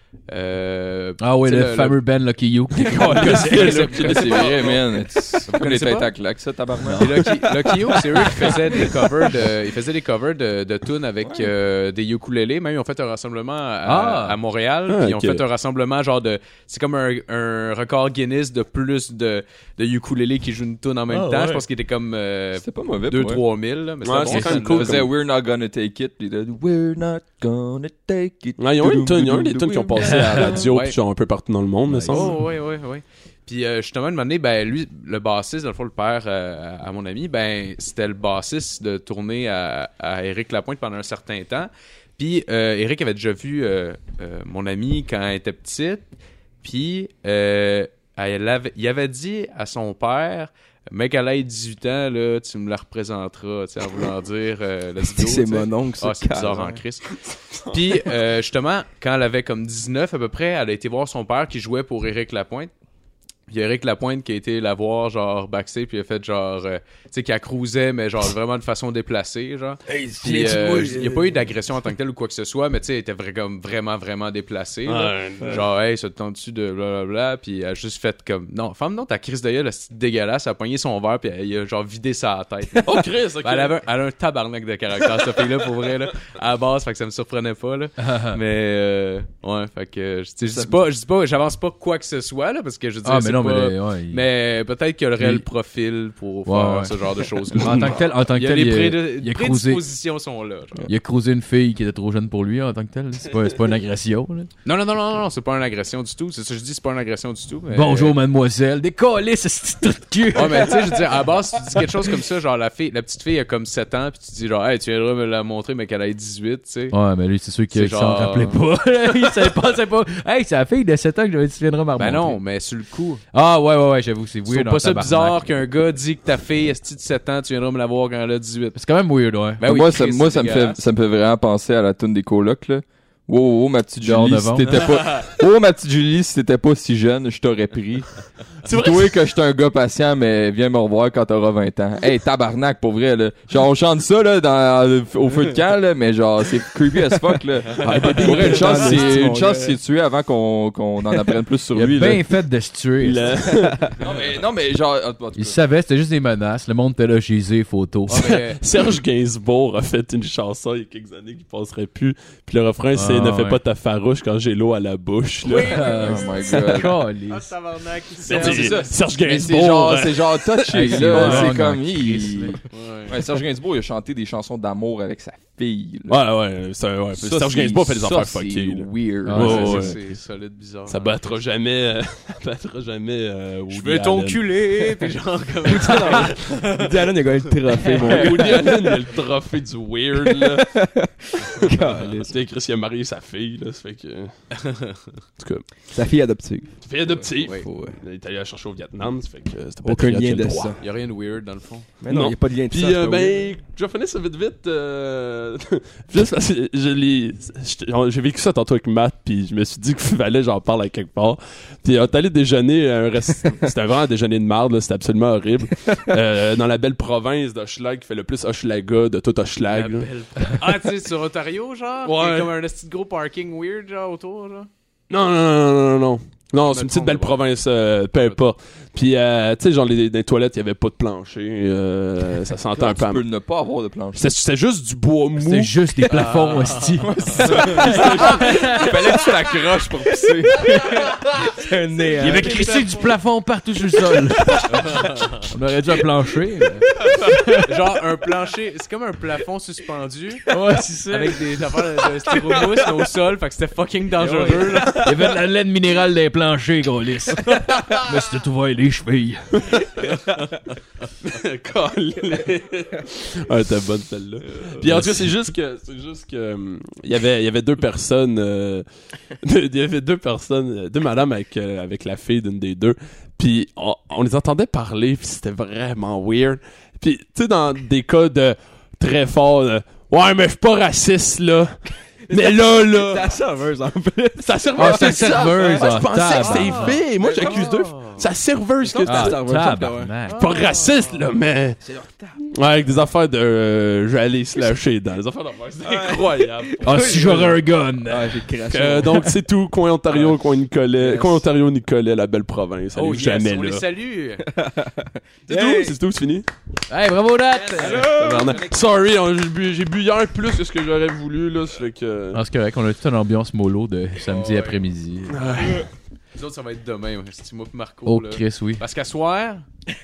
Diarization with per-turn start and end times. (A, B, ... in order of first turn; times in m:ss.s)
0:00.3-0:02.0 A
0:01.2-0:04.1 B
0:02.8-0:04.7 C
0:03.2-0:08.8 D
0:03.6-0:04.8 A
0:05.5-0:06.1 A
0:07.0-0:25.1 A
0:11.2-0:11.5 D
0:13.9-0:14.4 B
0:14.9-0:15.4 C
0:21.1-0:21.6 B
0:22.6-0:23.4 D
0:24.0-0:25.1 C
0:24.3-0:24.5 B
0:24.5-0:30.7 D
0:28.6-0:32.4 C
0:30.2-0:30.4 B
0:30.5-0:31.0 A
0:31.9-0:32.4 D
0:32.1-0:46.1 A
0:46.6-0:57.2 A
0:55.1-0:56.8 E
0:57.2-0:57.9 C
0:57.7-1:02.7 A
1:03.5-1:40.9 A
1:09.9-1:11.0 C
1:14.9-1:15.7 C
1:22.8-1:23.8 C
1:28.0-1:28.4 B
1:30.4-1:30.7 E
1:33.0-1:34.2 B
1:35.2-1:35.4 B
1:36.5-1:36.9 B
1:37.5-1:39.8 B
1:37.5-1:38.0 C
1:40.9-1:44.5 B
1:44.6-1:48.2 A
1:47.7-1:50.9 B
1:50.3-1:57.0 A
1:56.9-2:02.4 B
1:57.7-1:58.6 A
2:02.0-2:03.2 A
2:03.3-2:05.4 B
2:04.5-2:08.8 A
2:08.7-2:09.6 B
2:09.6-2:10.8 A
2:09.6-2:18.1 D
2:14.0-2:14.8 B
2:18.6-2:32.2 D
2:18.7-2:19.1 C
2:27.8-2:29.2 B
2:28.1-2:29.8 E
2:31.7-2:33.4 B
2:33.0-2:33.8 C
2:34.0-2:35.6 D
2:35.4-2:38.3 B
2:38.1-2:38.6 A
2:38.2-2:45.8 C
2:42.9-2:43.6 B
2:45.4-2:48.9 A
2:45.6-2:47.5 B
2:45.8-2:46.9 D
2:48.2-2:51.6 C
2:48.3-2:56.2 D
2:50.7-2:52.6 B
2:52.7-2:53.2 A
2:56.1-3:00.0 C
2:57.2-2:59.9 D
2:59.3-3:00.1 B
2:59.4-3:01.4 A
3:00.9-3:04.5 C
3:03.7-3:07.1 A
3:05.6-3:09.1 E
3:07.8-3:08.4 A
3:07.9-3:10.7 C
3:10.2-3:12.4 E
3:12.1-3:14.3 C
3:14.6-3:15.2 A
3:15.4-3:15.7 C
3:15.9-3:18.0 E
3:16.8-3:20.8 C
3:19.8-3:20.8 E
3:20.8-3:21.9 A
3:22.0-3:23.5 E
3:22.1-3:40.1 C
3:39.7-3:44.7 A
3:42.0-3:42.5 C
3:45.1-3:53.2 C
3:46.7-3:47.4 A
3:48.1-3:48.4 A
3:52.7-3:54.3 D
3:54.2-3:55.7 C
3:55.4-3:58.8 B
3:56.1-3:59.4 A
3:57.2-4:00.7 D
3:57.4-3:57.9 E
4:00.5-4:02.8 E
4:02.1-4:03.1 A
4:02.2-4:04.9 B
4:04.7-4:05.5 A
4:05.4-4:07.7 B
4:07.6-4:10.5 A
4:10.5-4:11.6 B
4:11.1-4:15.0 A
4:14.2-4:15.1 E
4:15.0-4:19.7 B
4:17.5-4:18.1 A
4:21.3-4:28.9 C
4:24.8-4:25.3 B
4:29.4-4:41.8 C
4:42.3-4:48.2 E
4:42.3-4:43.4 C
4:44.4-4:49.4 C
4:44.7-4:47.0 B
4:47.4-4:48.2 A
4:48.8-4:50.8 E
4:49.0-4:50.4 B
4:50.3-4:51.0 A
4:50.3-4:51.8 C
4:51.8-4:52.4 E
4:52.5-4:57.6 C
4:55.8-4:59.4 E
4:56.8-4:58.5 B
4:58.7-5:03.8 C
5:00.1-5:00.4 E
5:01.0-5:01.5 E
5:02.9-5:04.5 A
5:04.5-5:06.0 E
5:05.5-5:06.5 C
5:06.9-5:08.1 B
5:07.5-5:08.7 A
5:07.8-5:08.6 E
5:07.9-5:12.4 C
5:12.3-5:15.7 B
5:14.2-5:14.8 A
5:15.3-5:15.9 C
5:16.4-5:19.6 A
5:18.1-5:18.8 B